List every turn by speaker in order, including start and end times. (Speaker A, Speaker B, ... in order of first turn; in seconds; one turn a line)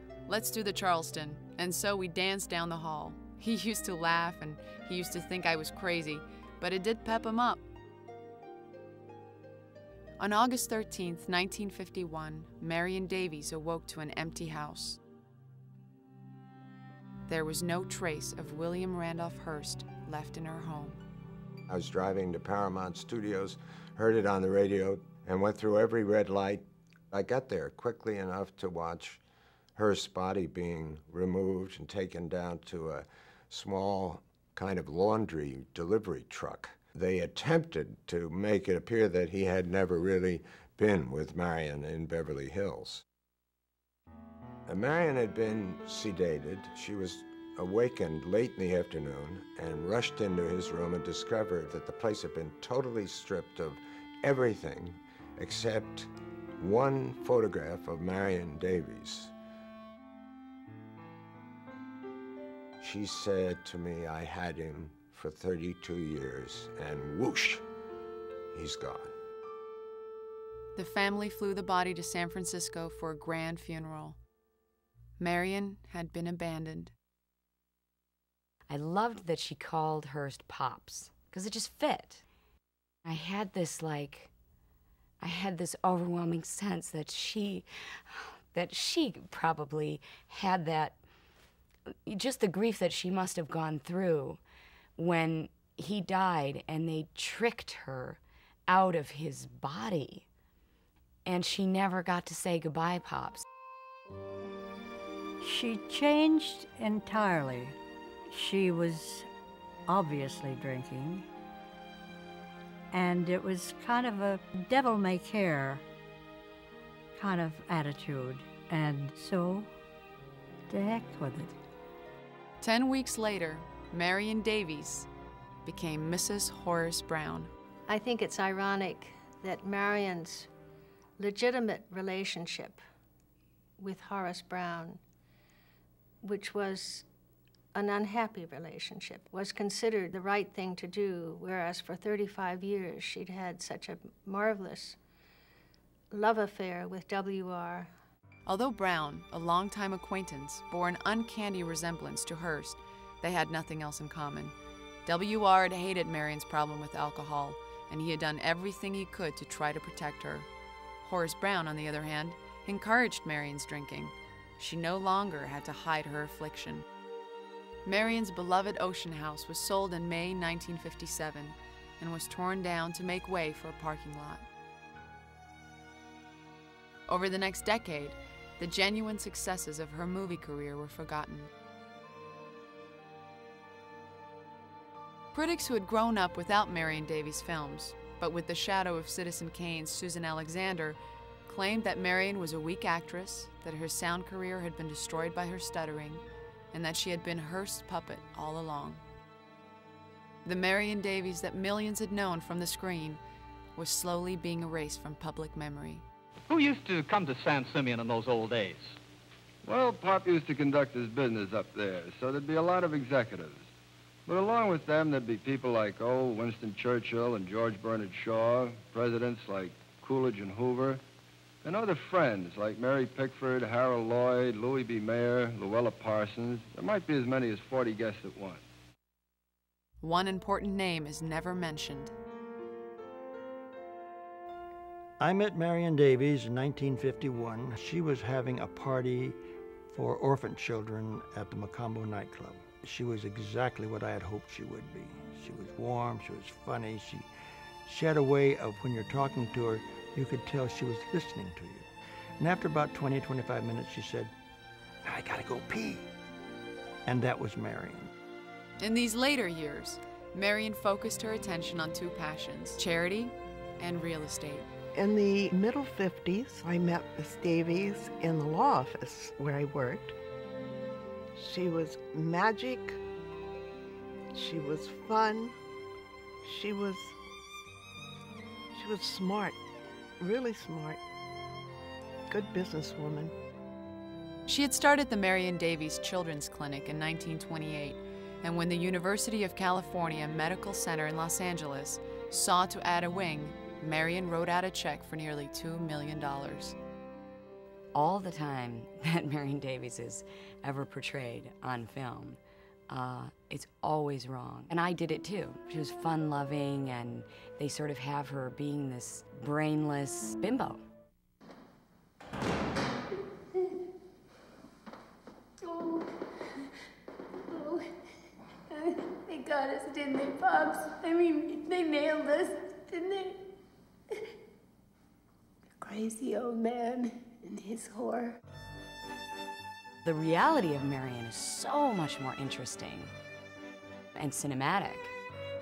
Speaker A: 0.3-7.6
Speaker A: 10.2-15.0
Speaker A: 17.3-21.0
Speaker B: 21.7-29.2
Speaker B: 29.8-43.0
Speaker B: 44.7-56.1
Speaker B: 56.6-59.3
Speaker B: 62.8-67.6
Speaker B: 68.5-69.1
Speaker A: 70.8-74.2
Speaker A: 75.2-76.9
Speaker C: 78.7-82.2
Speaker C: 83.0-84.3
Speaker C: 85.2-91.0
Speaker C: 92.1-94.4
Speaker C: 95.0-100.3
Speaker C: 101.2-103.4
Speaker D: 105.4-107.8
Speaker D: 108.3-109.3
Speaker D: 109.9-111.3
Speaker D: 112.9-115.8
Speaker D: 117.2-119.7
Speaker D: 120.7-121.6
Speaker A: 122.6-125.1
Speaker A: 125.7-127.5
Speaker E: 127.9-130.5
Speaker E: 131.2-132.8
Speaker E: 133.8-135.0
Speaker E: 136.2-137.1
Speaker E: 137.7-145.0
Speaker E: 146.1-147.9
Speaker A: 148.5-160.5
Speaker A: 161.0-166.8
Speaker A: 167.8-174.4
Speaker A: 177.1-181.5
Speaker A: 185.3-199.0
Speaker A: 200.4-203.2
Speaker A: 203.8-206.1
Speaker F: 206.5-208.9
Speaker G: 209.6-213.7
Speaker G: 214.3-221.0
Speaker G: 221.6-228.6
Speaker A: 230.0-232.1
Speaker H: 235.2-239.4
Speaker H: 239.9-247.3
Speaker H: 247.9-254.3
Speaker H: 255.0-256.1
Speaker H: 257.1-258.1
Speaker A: 258.8-264.7
Speaker I: 264.9-270.1
Speaker I: 271.4-273.0
Speaker I: 274.3-275.6
Speaker I: 276.4-277.1
Speaker I: 278.7-279.6
Speaker I: 280.2-281.0
Speaker I: 282.3-283.3
Speaker A: 284.5-296.8
Speaker C: 297.9-310.8
Speaker J: 315.7-316.1
Speaker J: 317.5-317.8
Speaker J: 319.3-323.4
Speaker J: 325.8-328.3
Speaker C: 330.0-333.1
Speaker C: 334.1-335.1